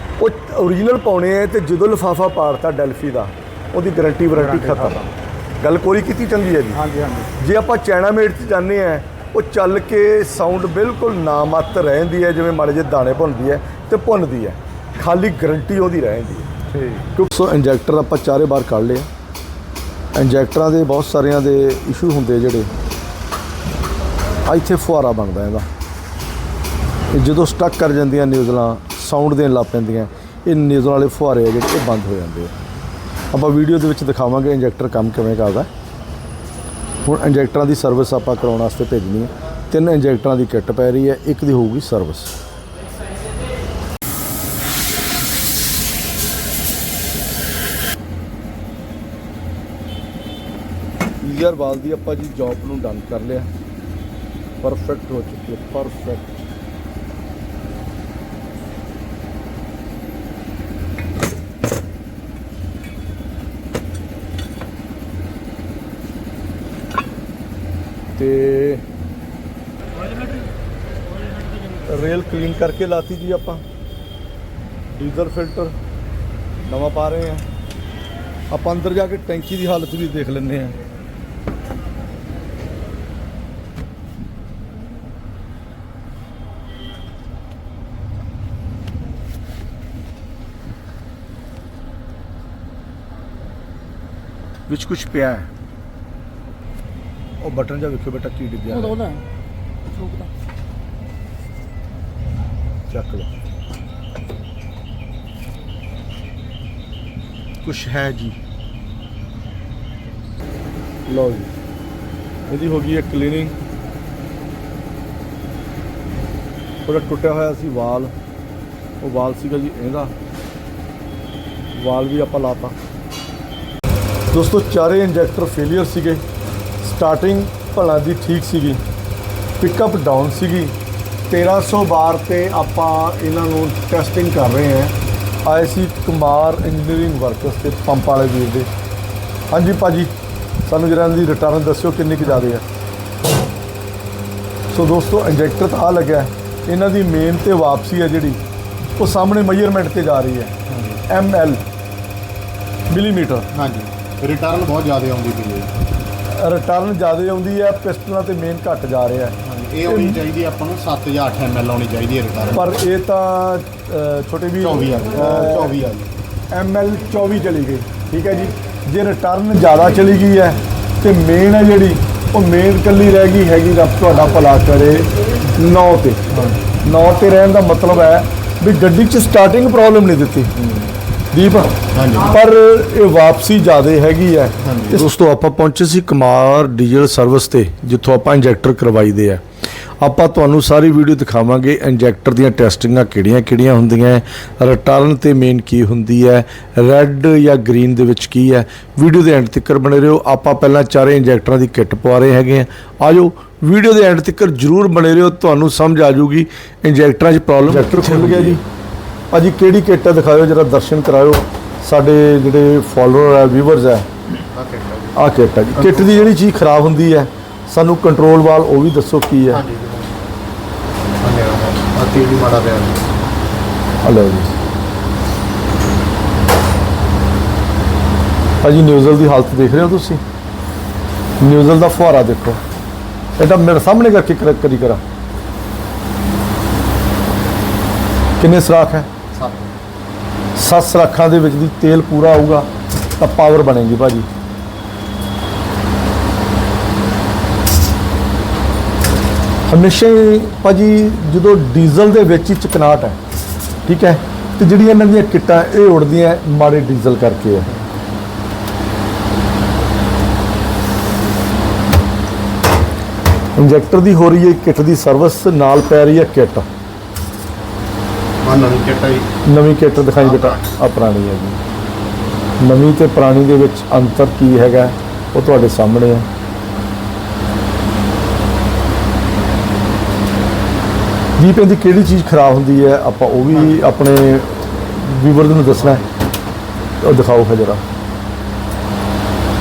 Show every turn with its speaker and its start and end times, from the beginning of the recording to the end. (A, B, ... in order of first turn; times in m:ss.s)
0:00.2-0:05.0 A
0:04.3-0:05.1 B
0:05.6-0:06.8 A
0:06.7-0:07.3 B
0:07.4-0:16.5 A
0:16.7-0:17.0 B
0:17.2-0:19.1 A
0:20.2-0:22.7 A
0:24.5-0:25.7 A
0:27.1-0:32.5 A
0:33.3-0:35.7 A
0:37.1-0:42.3 A
0:51.2-0:53.5 A
0:54.6-0:56.4 A
1:08.2-1:08.8 A
1:11.9-1:13.6 A
1:14.9-1:15.8 A
1:16.7-1:17.4 A
1:18.5-1:20.8 A
1:34.7-1:35.5 A
1:37.4-1:39.0 A
1:38.9-1:39.2 B
1:39.9-1:40.3 B
1:42.9-1:43.3 A
1:47.6-1:48.4 A
1:51.1-1:51.5 A
1:52.5-1:53.6 A
1:56.9-1:58.1 A
1:59.0-2:00.1 A
2:01.8-2:02.8 A
2:04.3-2:06.2 A
2:06.8-2:08.8 A
2:09.6-2:10.8 A
2:11.3-2:18.7 A
2:19.5-2:20.1 A
2:20.7-2:22.6 A
2:24.7-2:28.4 A
2:29.0-2:31.6 A
2:30.7-2:31.0 C
2:32.9-2:33.5 A
2:33.5-2:35.7 C
2:36.3-2:40.2 A
2:39.4-2:42.8 C
2:42.5-2:45.7 A
2:44.6-2:46.1 C
2:46.5-3:00.7 A
3:01.3-3:09.4 A
3:01.9-3:02.3 C
3:04.6-3:05.0 C
3:10.0-3:28.6 A
3:27.8-3:28.6 C
3:29.3-3:34.1 A
3:34.5-3:35.2 C
3:35.2-3:39.6 A
3:35.8-3:36.3 C
3:39.5-3:40.3 C
3:41.2-3:43.1 C
3:44.0-3:44.6 A
3:48.6-3:50.2 A
3:51.4-3:52.6 A
3:53.4-3:55.0 A
3:58.4-3:59.1 A
3:59.3-3:59.7 C
4:00.6-4:04.3 A
4:09.7-4:13.2 A
4:13.9-4:17.7 A
4:23.6-4:26.7 A
4:28.4-4:29.3 C
4:29.5-4:31.6 A
4:30.2-4:30.7 C
4:32.6-4:36.3 A
4:41.4-4:46.0 A
4:47.0-4:47.8 A